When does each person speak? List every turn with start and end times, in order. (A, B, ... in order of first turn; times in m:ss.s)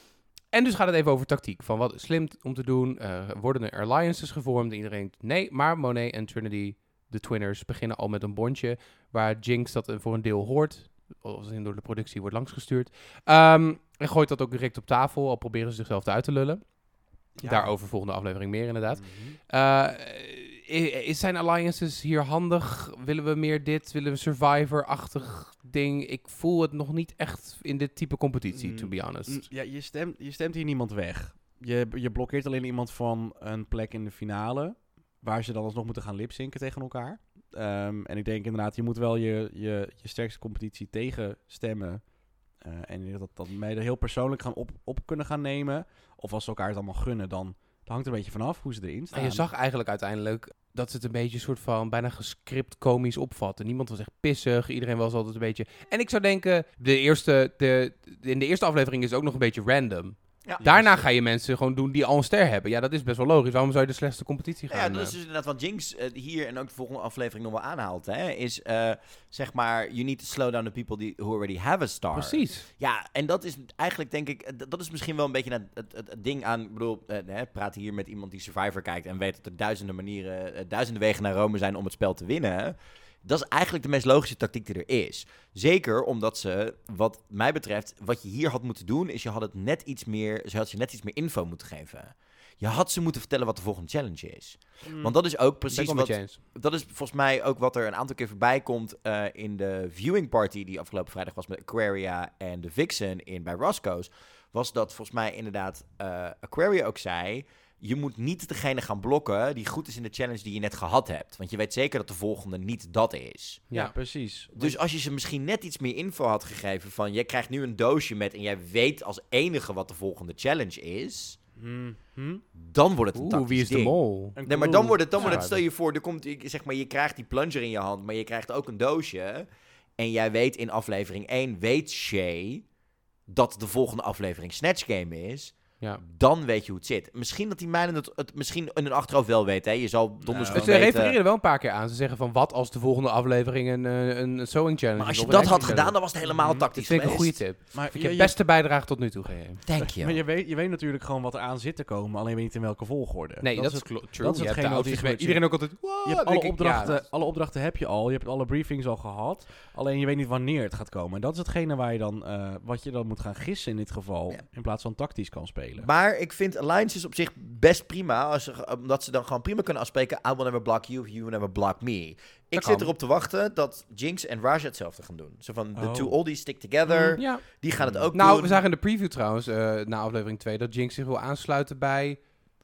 0:00.5-0:29.5 A
0:17.3-0:17.7 B
0:18.9-0:19.4 B
0:28.5-0:49.5 B
0:49.1-1:05.2 A
1:00.6-1:01.0 B
1:04.7-1:53.6 C
1:12.1-1:12.7 A
1:34.8-1:35.1 B
1:35.7-1:36.4 A
1:53.7-1:53.9 A
1:53.7-1:54.8 B
1:54.5-2:01.4 C
2:01.6-2:02.4 B
2:02.5-2:09.5 C
2:03.1-2:05.6 A
2:04.4-2:05.4 B
2:10.0-2:12.6 C
2:13.3-2:21.2 C
2:20.2-2:20.8 B
2:20.5-2:29.8 A
2:25.0-2:27.4 C
2:25.3-2:26.6 B
2:27.7-2:28.4 B
2:29.6-2:30.2 C
2:29.9-2:45.9 B
2:33.4-2:37.0 A
2:35.8-2:37.0 C
2:45.8-2:58.6 C
2:52.5-2:52.9 A
2:55.8-2:56.2 B
2:56.9-2:57.2 B
2:56.9-2:57.5 A
2:57.8-2:58.1 B
2:58.1-3:02.3 A